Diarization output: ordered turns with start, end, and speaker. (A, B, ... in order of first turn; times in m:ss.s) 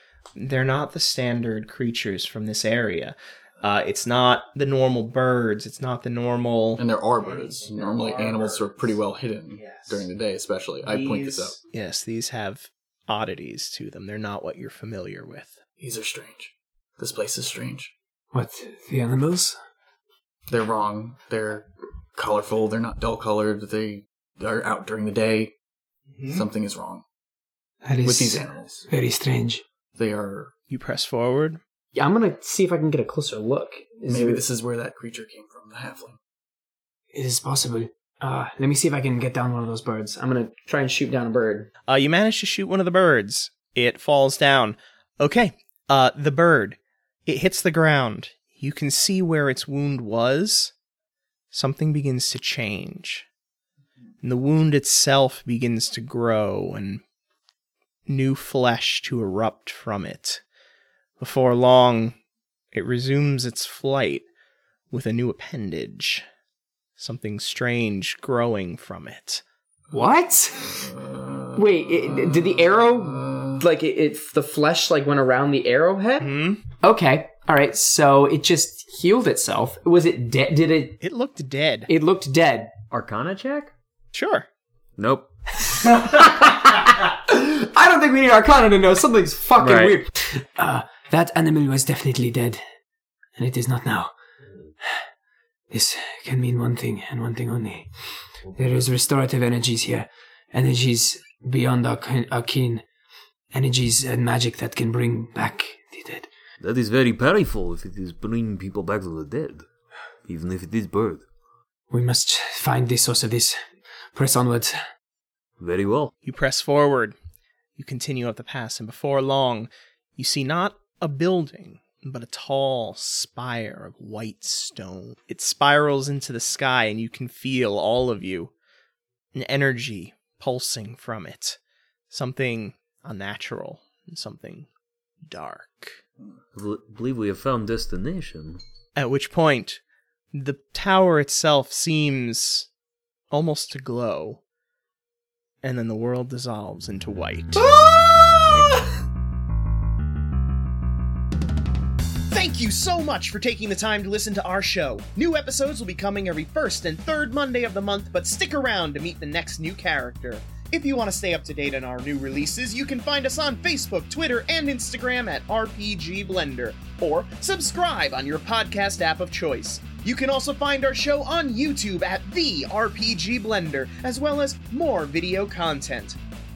0:00.4-0:09.0 A
0:06.8-0:11.6 B
0:09.5-0:10.1 A
0:10.8-0:15.6 A
0:15.8-0:17.9 B
0:18.3-0:19.6 C
0:20.5-0:25.5 B
0:26.2-0:26.4 A
0:26.3-0:27.0 B
0:27.8-0:29.6 C
0:28.0-0:28.8 B
0:30.0-0:30.5 B
0:30.7-0:31.6 A
0:31.9-0:34.4 D
0:34.1-0:36.2 B
0:37.1-0:40.1 C
0:40.0-0:41.7 D
0:41.9-0:50.7 A
0:51.5-0:53.3 A
0:54.2-0:57.0 A
0:58.1-1:00.4 A
1:01.2-1:02.2 A
1:02.7-1:04.3 A
1:04.9-1:06.3 A
1:07.0-1:09.4 A
1:09.9-1:10.8 D
1:10.8-1:13.6 B
1:11.6-1:21.0 D
1:16.2-1:16.6 A
1:21.0-1:21.9 A
1:21.9-1:22.7 D
1:22.9-1:23.7 E
1:24.1-1:24.5 A
1:25.0-1:25.3 E
1:25.7-1:30.1 D
1:29.6-1:30.0 E
1:30.2-1:32.6 C
1:33.4-1:34.1 C
1:35.7-1:37.9 C
1:38.6-1:42.8 C
1:43.5-1:46.3 C
1:46.6-1:49.7 E
1:50.3-1:51.2 E
1:51.9-1:53.6 C
1:54.1-1:54.8 C
1:55.6-1:56.1 E
1:56.2-1:57.2 A
1:57.8-2:08.5 A
2:09.3-2:11.6 A
2:12.1-2:14.7 A
2:15.2-2:16.0 A
2:16.6-2:18.6 E
2:19.0-2:19.8 A
2:20.3-2:22.7 A
2:23.3-2:24.4 A
2:25.6-2:27.7 A
2:27.7-2:28.5 B
2:28.5-2:28.8 A
2:32.3-2:56.2 A